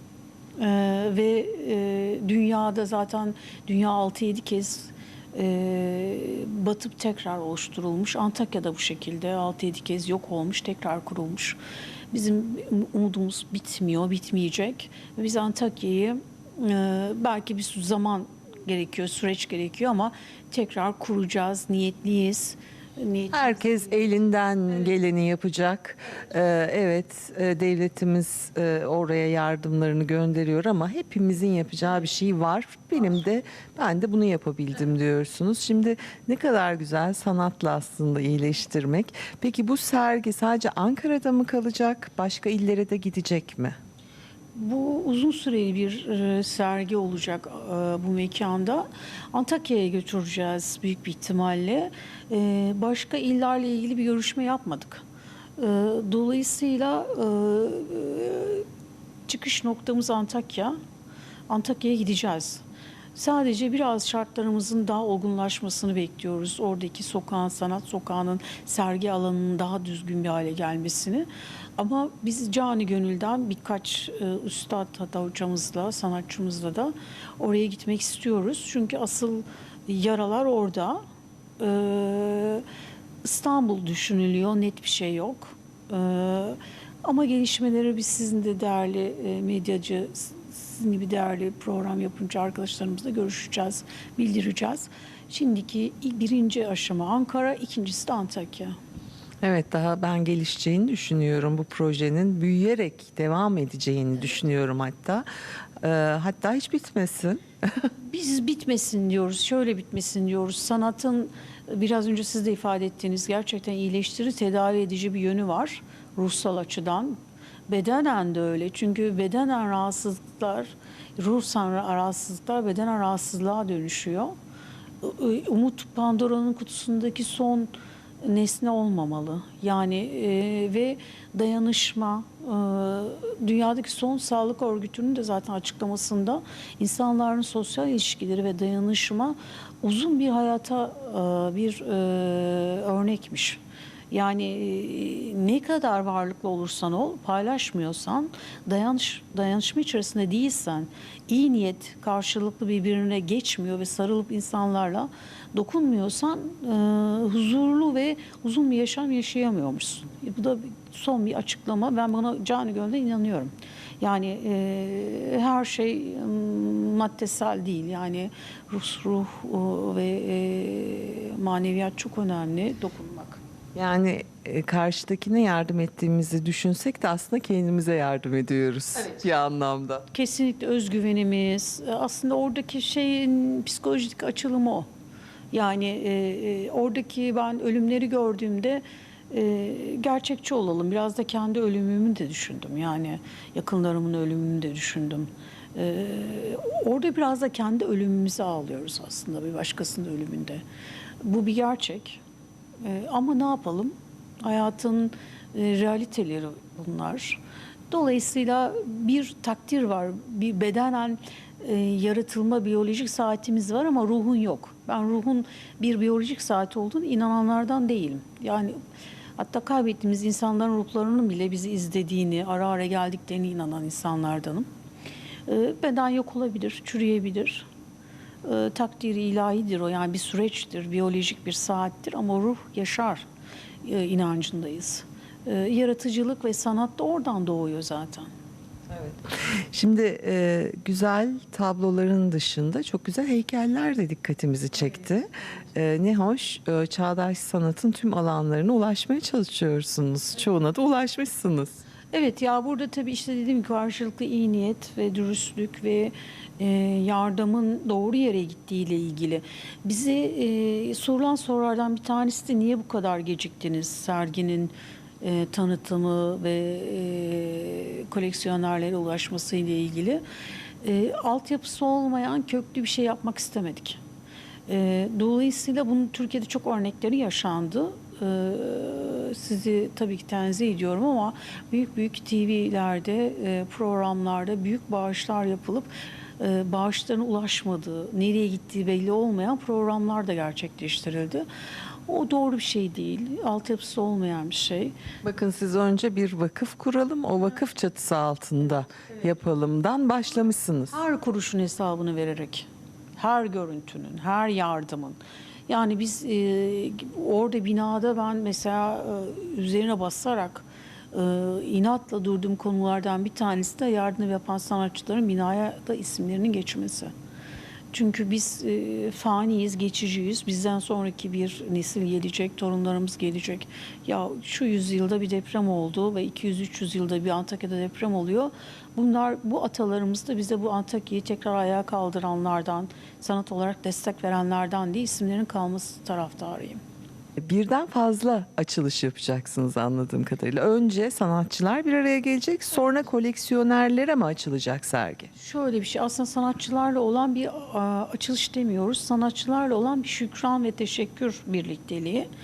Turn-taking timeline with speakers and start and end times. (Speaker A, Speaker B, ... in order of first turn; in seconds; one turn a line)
Speaker A: 0.6-11.6
Speaker A: 12.1-23.6
Speaker B: 23.3-43.8
Speaker A: 44.5-55.0
Speaker A: 55.6-58.6
Speaker A: 59.3-60.8
Speaker A: 61.5-62.6
Speaker A: 63.1-81.0
Speaker A: 81.6-82.6
Speaker A: 83.2-98.8
Speaker B: 99.4-105.2
Speaker B: 105.8-107.9
Speaker A: 108.0-117.2
Speaker A: 117.7-124.3
Speaker A: 125.0-143.6
Speaker A: 144.1-173.4
Speaker B: 173.7-180.0
Speaker A: 180.1-184.8
Speaker A: 185.5-200.6
Speaker A: 201.2-202.2
Speaker A: 202.8-218.8
Speaker A: 219.4-224.7
Speaker A: 225.5-227.7
Speaker A: 228.4-233.2
Speaker A: 233.8-238.3
Speaker B: 238.9-251.8
Speaker A: 252.1-270.2
Speaker A: 270.8-274.0
Speaker A: 274.7-291.5
Speaker A: 292.1-294.9
Speaker B: 295.2-300.9
Speaker A: 300.9-317.1
Speaker A: 317.9-336.8
Speaker B: 337.4-345.3
Speaker A: 345.4-352.3